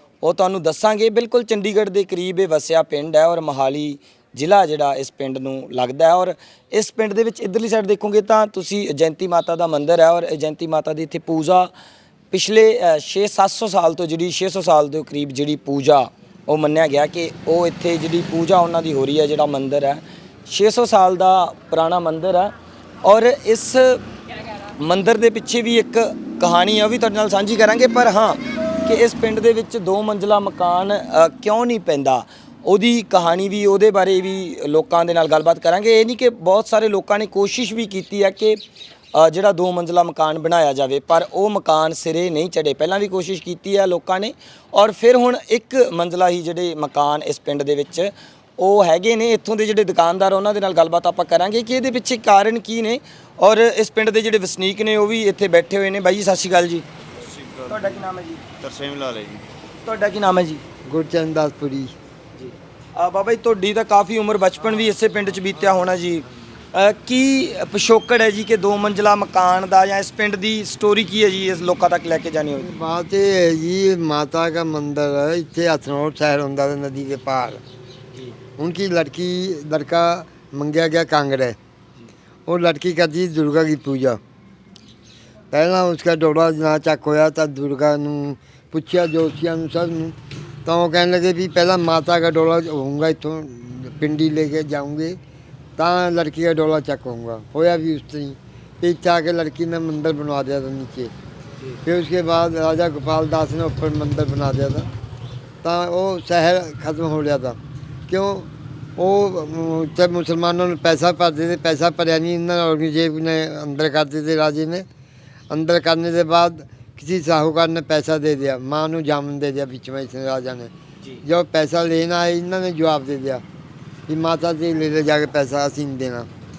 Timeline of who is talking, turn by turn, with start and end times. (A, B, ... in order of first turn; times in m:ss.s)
0:00.2-0:11.7 A
0:12.3-0:24.0 A
0:24.8-0:38.6 A
0:39.1-0:56.8 A
0:57.1-0:59.4 B
0:57.7-0:58.4 A
0:59.8-1:00.6 A
1:00.8-1:01.9 C
1:02.4-1:12.7 A
1:12.6-1:17.6 C
1:18.6-1:21.6 C
1:22.5-1:24.2 C
1:25.5-1:35.2 C
1:35.8-1:41.1 C
1:41.8-1:44.9 C
1:45.6-1:47.6 C
1:48.1-1:54.8 C
1:55.5-2:00.7 C
2:01.2-2:03.4 C
2:04.1-2:06.3 C